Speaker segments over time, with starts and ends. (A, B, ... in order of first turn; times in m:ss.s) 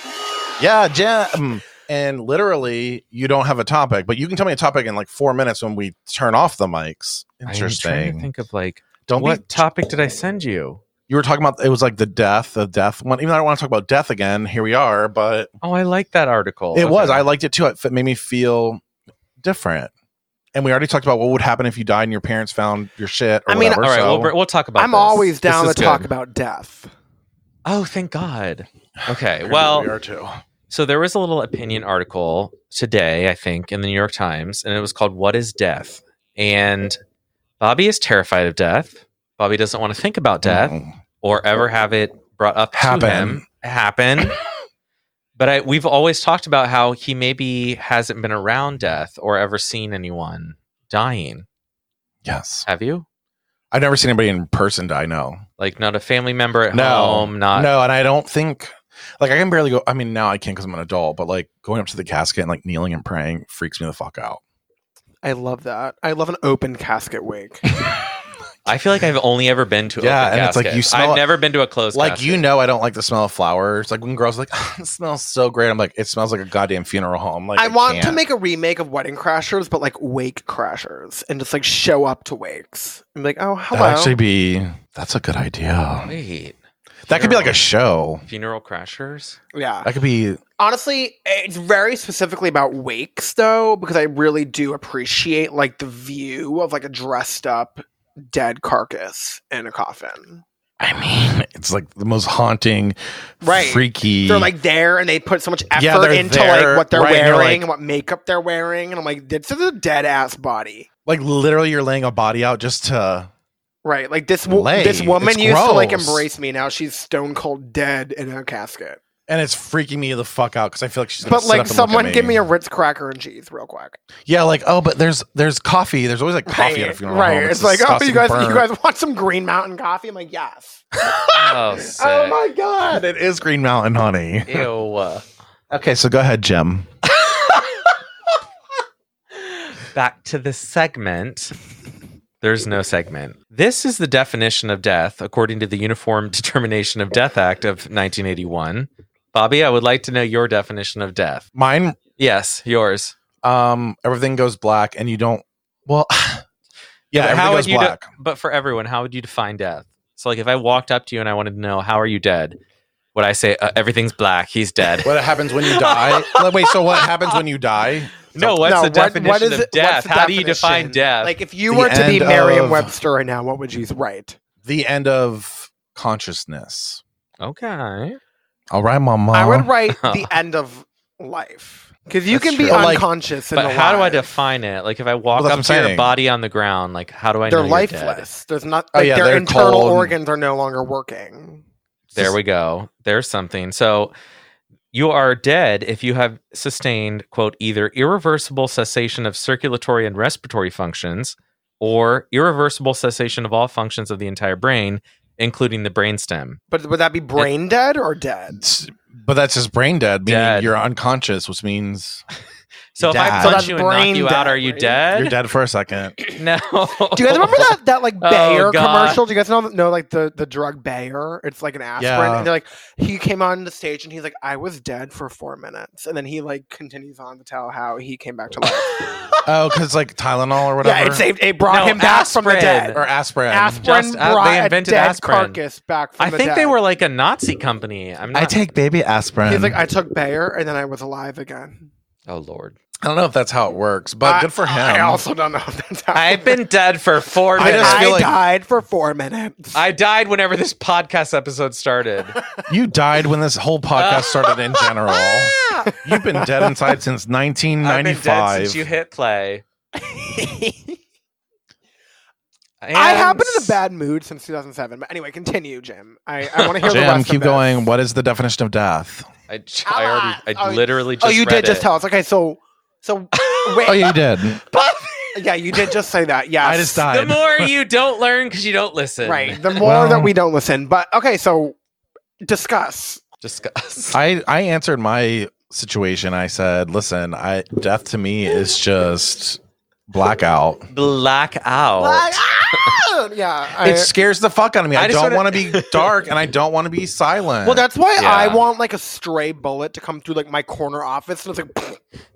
0:00.6-0:08.3 A
0:07.5-0:10.8 B
0:09.1-0:09.6 A
0:11.1-0:15.5 A
0:15.6-0:17.2 B
0:16.7-0:18.8 A
0:19.4-0:19.9 A
0:20.6-0:24.3 A
0:23.5-0:23.9 C
0:23.8-0:26.1 B
0:24.8-0:26.9 C
0:27.6-0:29.9 B
0:29.0-0:30.4 A
0:30.7-0:37.0 B
0:37.6-0:44.4 B
0:40.4-0:40.9 A
0:42.8-0:43.4 A
0:45.4-0:51.4 B
0:52.2-0:52.7 A
0:52.6-0:53.0 B
0:53.7-0:55.4 A
0:55.6-0:57.7 B
0:56.7-1:04.4 A
1:05.2-1:07.6 C
1:08.7-1:12.4 B
1:10.0-1:11.2 A
1:11.9-1:18.2 A
1:17.6-1:24.2 C
1:23.7-1:26.1 A
1:26.1-1:26.6 B
1:27.1-1:28.2 A
1:27.1-1:27.6 B
1:28.3-1:29.4 B
1:29.5-1:29.9 C
1:29.8-1:30.4 A
1:30.6-1:40.4 C
1:40.8-1:44.5 A
1:43.4-1:50.9 C
1:45.8-1:47.6 A
1:51.1-1:53.3 A
1:53.8-1:59.0 C
1:54.5-1:56.3 A
1:59.3-2:02.4 A
2:01.2-2:04.0 C
2:04.3-2:08.7 A
2:06.5-2:10.9 C
2:11.1-2:14.7 A
2:11.3-2:12.4 B
2:14.5-2:15.2 B
2:15.7-2:16.9 A
2:19.3-2:21.5 B
2:22.4-2:31.4 B
2:31.6-2:32.0 A
2:32.2-2:33.2 B
2:33.4-2:36.4 A
2:37.1-2:38.1 A
2:37.1-2:42.6 B
2:43.2-2:47.4 B
2:45.0-2:48.8 A
2:48.3-2:51.4 B
2:48.6-2:54.4 C
2:51.7-2:52.9 A
2:54.6-2:57.0 A
2:57.4-2:58.2 B
2:58.7-2:59.7 A
2:59.3-3:04.2 C
3:00.0-3:00.3 B
3:02.3-3:03.1 A
3:02.7-3:03.0 B
3:03.5-3:08.3 B
3:05.4-3:06.1 A
3:07.5-3:11.6 C
3:08.9-3:10.2 A
3:12.1-3:14.1 B
3:14.9-3:26.6 B
3:26.7-3:28.6 C
3:28.6-3:32.2 A
3:30.3-3:30.7 B
3:33.0-3:35.4 B
3:33.0-3:33.7 A
3:33.4-3:35.0 C
3:35.1-3:36.2 A
3:36.3-3:39.2 B
3:37.2-3:49.2 C
3:42.0-3:42.5 A
3:48.7-3:49.0 B
3:49.4-3:51.3 A
3:50.8-3:56.8 C
3:51.7-3:53.0 B
3:52.9-3:53.8 A
3:53.8-3:55.6 B
3:56.2-3:58.6 B
3:58.3-3:59.8 A
3:59.5-4:01.9 C
4:02.3-4:02.8 B
4:03.0-4:05.2 A
4:04.2-4:06.5 C
4:06.1-4:08.1 B
4:07.6-4:08.4 A
4:07.6-4:09.8 C
4:09.7-4:12.4 B
4:12.7-4:18.8 A
4:14.0-4:14.8 B
4:15.8-4:16.7 C
4:17.8-4:19.6 B
4:20.0-4:21.0 C
4:22.8-4:23.8 B
4:22.9-4:27.9 C
4:26.6-4:27.1 B
4:26.8-4:29.3 A
4:29.5-4:31.9 B
4:29.9-4:34.2 C
4:33.3-4:34.1 B
4:33.8-4:34.6 A
4:34.6-4:35.9 B
4:35.3-4:37.1 C
4:36.6-4:37.7 A
4:37.1-4:39.8 B
4:39.2-4:41.8 C
4:39.8-4:40.3 A
4:42.4-4:43.2 C
4:43.4-4:44.2 B
4:44.1-4:50.9 A
4:50.9-4:53.0 B
4:52.0-4:54.1 C
4:53.8-4:57.8 A
4:55.0-4:56.1 B
4:57.6-5:02.0 C
4:58.2-4:58.6 B